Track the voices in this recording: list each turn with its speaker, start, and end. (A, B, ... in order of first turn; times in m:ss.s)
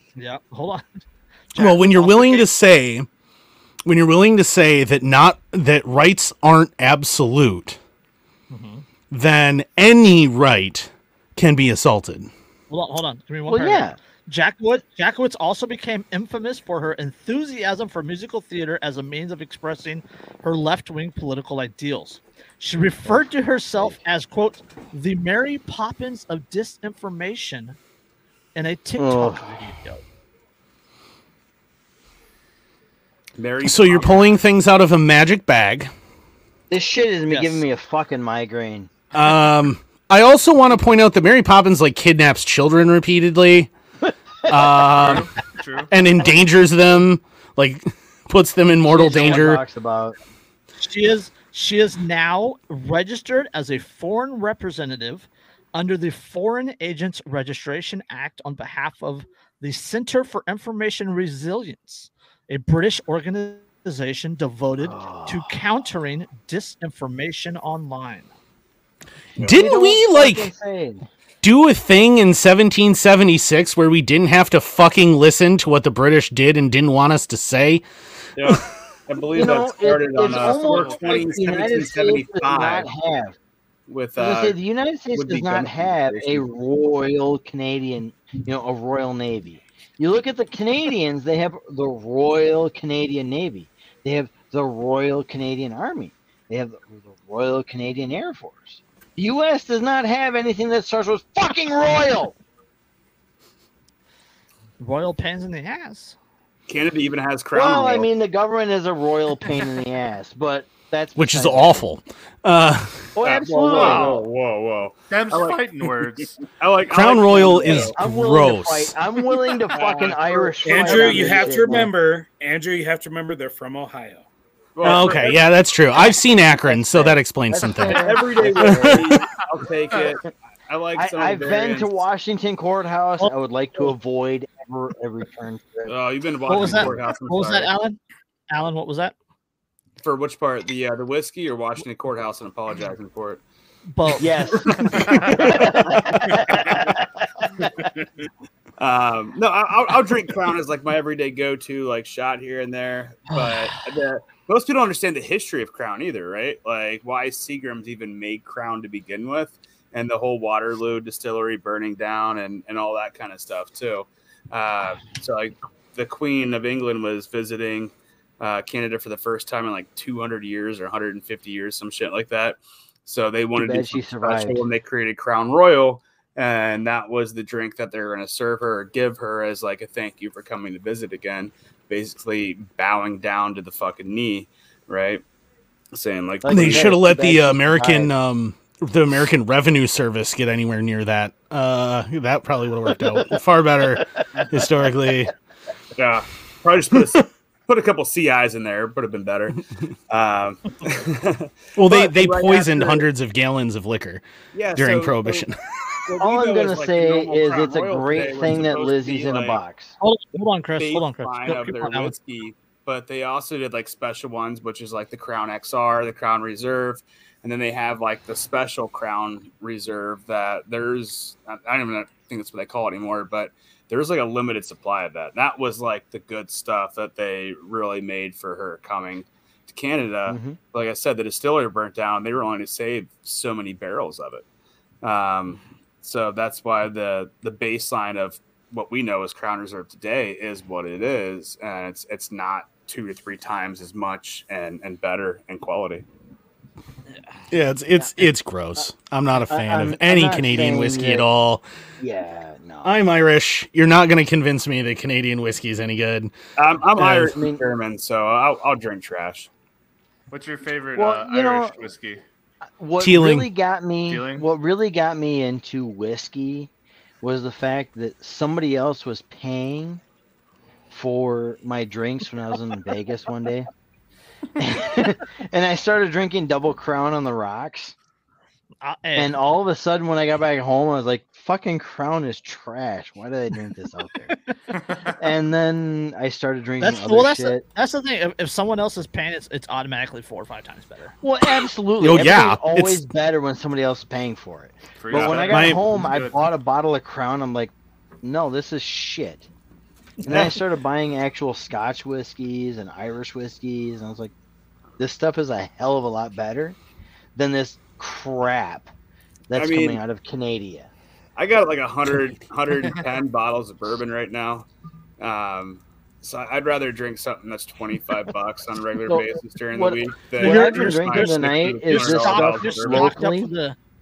0:00.1-0:00.8 A
0:01.5-0:02.5 A
0:01.6-0:03.1 B
0:03.8-0:07.8 B
0:08.5-0:08.8 A
0:09.1-0:12.3 B
0:12.7-0:27.8 A
0:13.5-0:14.0 C
0:23.0-0:24.0 C
0:28.5-0:30.0 A
0:29.0-0:29.5 C
0:33.4-0:34.3 D
0:33.6-0:35.9 B
0:36.7-0:38.9 C
0:37.3-0:37.6 A
0:39.1-0:43.7 B
0:44.0-0:45.2 C
0:44.5-0:45.3 B
0:44.9-0:45.9 E
0:45.9-0:49.6 B
0:48.8-0:50.2 C
0:50.8-1:08.3 A
1:04.8-1:05.5 C
1:09.4-1:09.6 D
1:09.4-1:10.5 B
1:09.5-1:11.0 C
1:11.4-1:17.8 B
1:18.4-1:22.9 D
1:19.3-1:23.4 C
1:20.6-1:21.2 F
1:23.9-1:24.6 D
1:24.2-1:42.4 C
1:25.1-1:26.4 D
1:44.8-1:46.2 A
1:46.7-1:48.1 D
1:47.5-1:51.8 C
1:51.2-1:53.1 B
1:53.2-1:54.2 C
1:53.2-1:58.0 D
1:53.7-1:54.3 E
1:55.1-1:56.4 E
1:56.9-1:58.9 B
1:57.4-2:01.9 C
1:59.7-2:01.4 D
1:59.9-2:04.2 F
2:04.8-2:05.4 D
2:04.8-2:09.2 B
2:04.8-2:05.3 C
2:05.9-2:09.1 C
2:07.8-2:12.0 D
2:11.0-2:15.9 C
2:15.8-2:17.7 D
2:16.5-2:19.1 A
2:16.6-2:16.9 C
2:20.0-2:23.4 D
2:23.9-2:24.3 A
2:24.2-2:27.7 C
2:24.5-2:26.8 D
2:25.0-2:25.3 E
2:28.8-3:05.2 D
2:33.3-2:33.8 A
2:53.6-2:54.6 C
3:05.9-3:06.9 D
3:06.4-3:08.1 C
3:06.5-3:15.3 B
3:15.9-3:23.0 D
3:21.8-3:24.2 B
3:24.5-3:25.5 D
3:24.8-3:25.6 B
3:26.0-3:29.6 D
3:26.2-3:30.0 C
3:30.0-3:32.1 A
3:30.8-3:54.4 D
3:50.3-3:50.6 C
3:55.0-4:06.0 D
4:07.5-4:11.6 B
4:08.8-4:11.2 C
4:12.0-4:13.0 C
4:12.8-4:16.3 B
4:16.6-4:19.5 D
4:17.0-4:17.7 C
4:20.3-4:22.2 E
4:21.0-4:21.8 C
4:22.8-4:26.7 C
4:23.0-4:23.5 B
4:24.0-4:24.5 E
4:27.2-4:30.0 C
4:30.9-4:33.7 C
4:34.6-4:37.9 C
4:38.8-4:39.3 A
4:39.2-4:44.3 C
4:44.7-4:45.2 E
4:45.2-4:47.6 C
4:46.8-4:51.2 A
4:51.2-4:59.5 C
4:52.0-4:53.0 B
4:55.0-4:56.5 E
4:55.1-4:55.4 D
4:55.5-4:55.8 B
5:00.2-5:04.3 C
5:05.0-5:06.8 C
5:07.4-5:08.9 C
5:09.5-5:10.9 C
5:09.5-5:10.0 D
5:11.4-5:14.7 D
5:15.2-5:23.1 D
5:19.1-5:23.5 C
5:20.4-5:23.8 A